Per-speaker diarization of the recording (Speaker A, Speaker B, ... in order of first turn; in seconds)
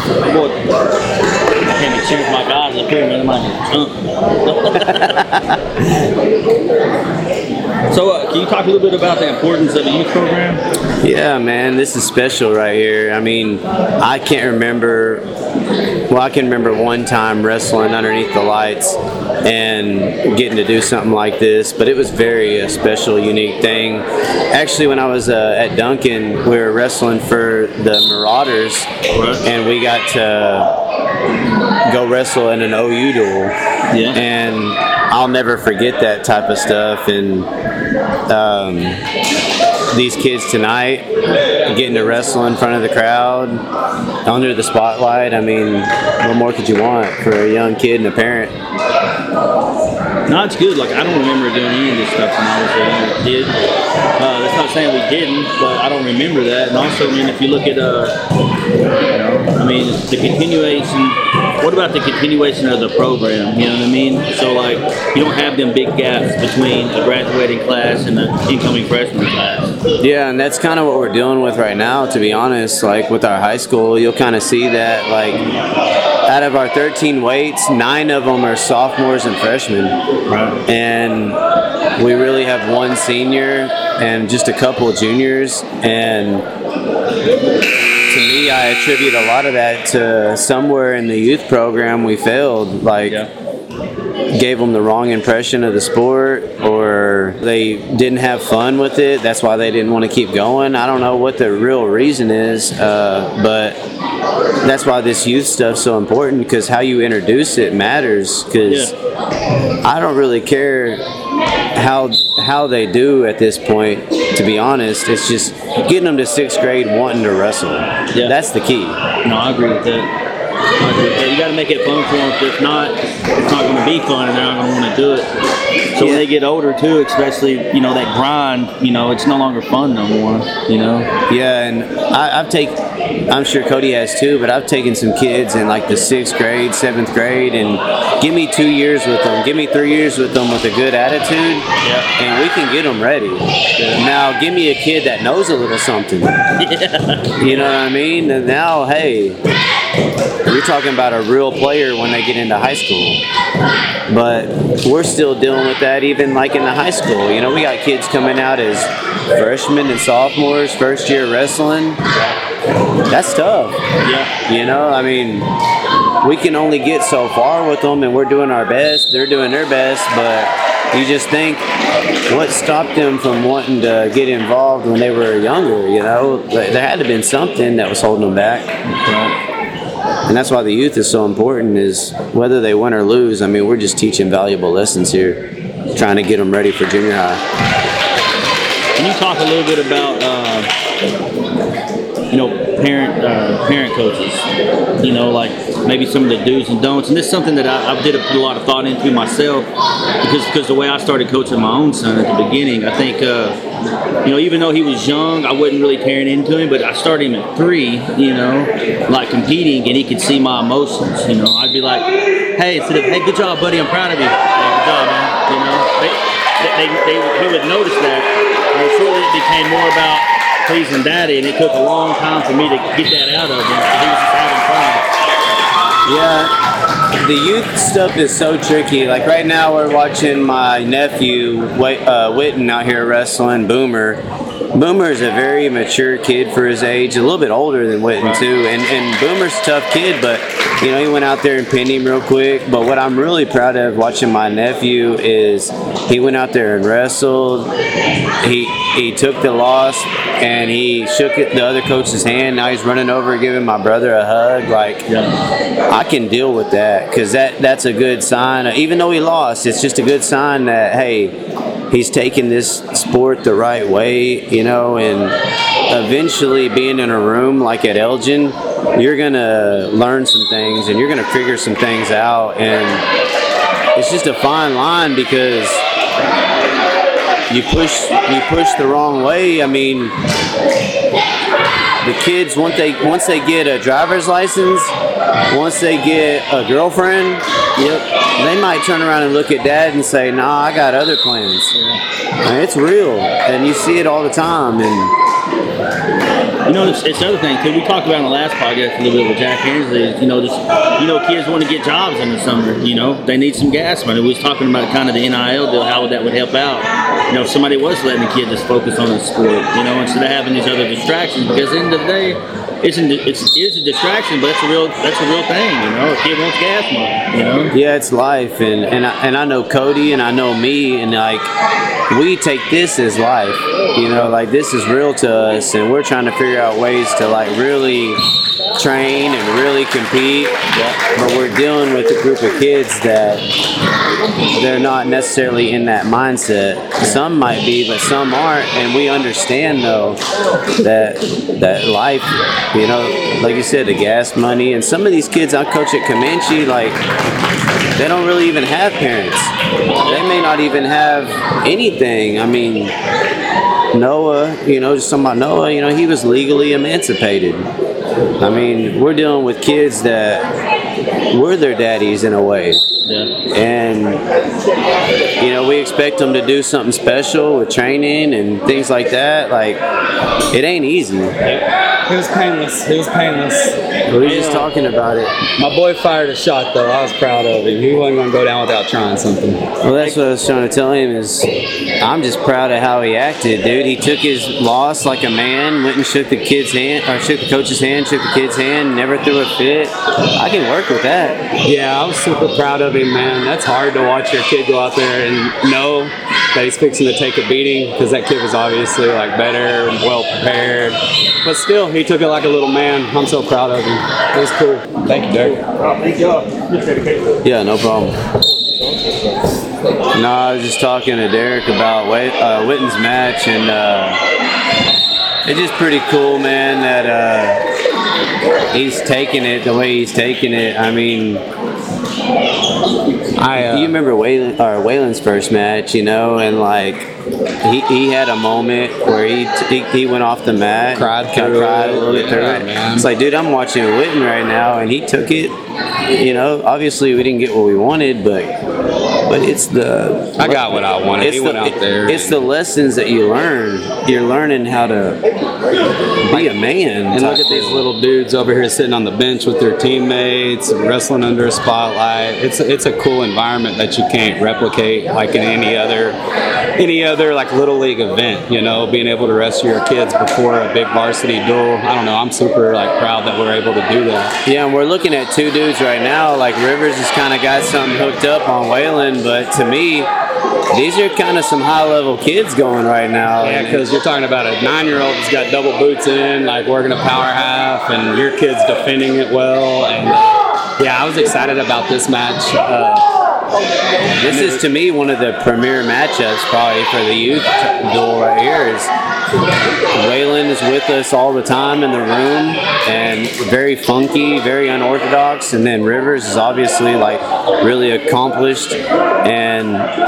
Speaker A: 0.2-0.6, 1.6-5.2, 7.9-10.6, 29.1-29.4, 33.9-34.2, 50.2-53.5, 54.2-58.2, 59.1-69.7, 80.2-80.6, 108.6-108.9, 119.2-120.1, 120.8-125.3, 125.9-131.1, 141.8-142.1, 146.6-147.4, 164.0-164.3, 178.8-179.3, 188.9-190.7, 192.3-194.5, 195.0-199.7, 200.2-203.6, 204.2-225.1, 287.8-288.0, 291.7-292.0, 296.6-317.7, 330.7-331.0, 363.0-363.3, 405.5-407.4
Speaker B: 5.2-5.5, 11.0-15.2, 16.1-28.9, 29.4-30.7, 31.9-33.5, 34.1-37.5, 38.3-39.0, 39.9-43.6, 44.2-48.5, 70.0-75.4, 76.2-80.0, 80.7-81.4, 82.0-86.5, 88.1-93.2, 94.3-103.8, 104.6-108.9, 109.8-111.0, 111.7-119.0, 131.3-146.3, 147.4-149.4, 150.4-153.2, 154.1-162.0, 163.1-163.8, 164.4-165.5, 166.2-171.7, 172.3-178.7, 180.3-187.4, 226.0-226.5, 227.1-234.2, 234.7-247.7, 248.4-255.1, 255.9-261.4, 261.9-265.4, 265.9-273.0, 273.9-275.8, 277.5-280.1, 282.0-284.9, 285.5-287.4, 288.4-291.7, 292.4-295.1, 317.7-321.5, 322.1-328.2, 328.7-330.5, 331.1-333.4, 334.5-340.2, 340.8-347.0, 347.9-349.5, 350.0-352.9, 353.9-357.7, 358.4-360.5, 361.3-362.8, 363.5-364.2, 365.4-369.8, 370.5-371.4, 374.1-375.3, 379.8-381.5, 382.0-391.4, 407.4-408.1, 410.1-414.2, 415.4-417.6, 418.7-421.4, 423.5-427.1, 427.6-435.6, 436.1-438.5, 439.3-440.6, 441.2-445.2, 446.2-447.9, 464.4-470.1, 470.7-473.9, 484.2-488.9, 489.9-499.9
Speaker C: 372.1-374.6, 375.6-379.6, 391.6-405.6, 423.4-423.9, 431.0-433.1, 440.4-442.4, 447.1-456.2, 456.8-464.3, 473.4-480.2, 480.8-483.0, 484.2-484.6